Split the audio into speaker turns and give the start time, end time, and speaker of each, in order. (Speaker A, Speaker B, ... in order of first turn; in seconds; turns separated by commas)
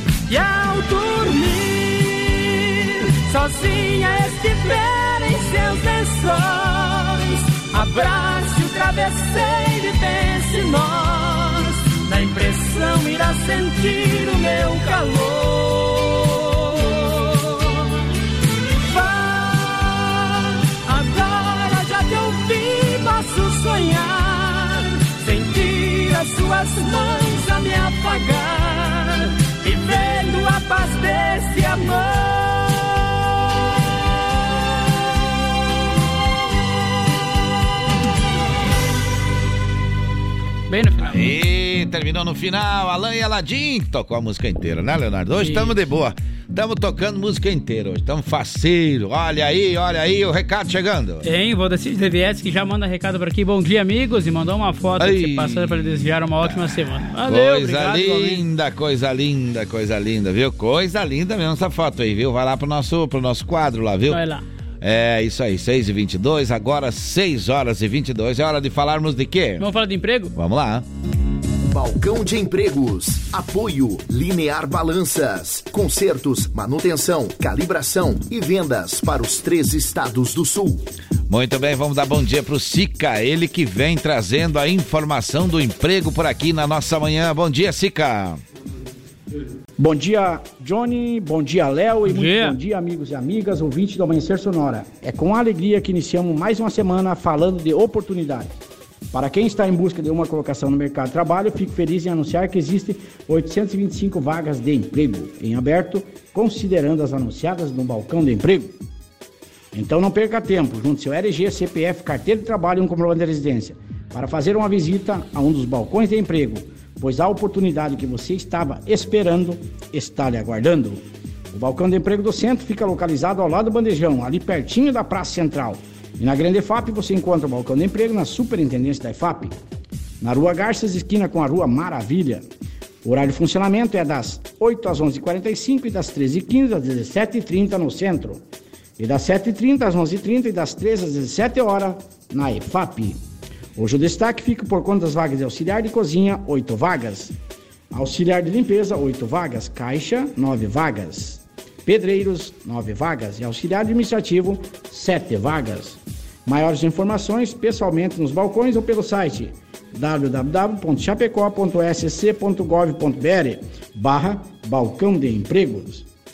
Speaker A: 0.3-18.0, Speaker A: 18.8-33.0, Speaker B: 40.7-41.2, Speaker C: 41.0-51.2, Speaker B: 45.4-45.8, Speaker B: 51.2-58.4, Speaker C: 55.0-64.2, Speaker B: 64.1-64.4, Speaker C: 64.8-69.6, Speaker B: 69.6-70.3, Speaker C: 70.3-70.8, Speaker D: 71.7-80.8, Speaker C: 81.3-88.4, Speaker E: 89.8-98.5, Speaker B: 92.1-92.5, Speaker E: 99.1-108.8, Speaker E: 109.7-129.5, Speaker E: 130.2-132.5, Speaker E: 133.0-138.4, Speaker E: 139.0-143.2, Speaker E: 143.8-147.3, Speaker E: 147.9-166.0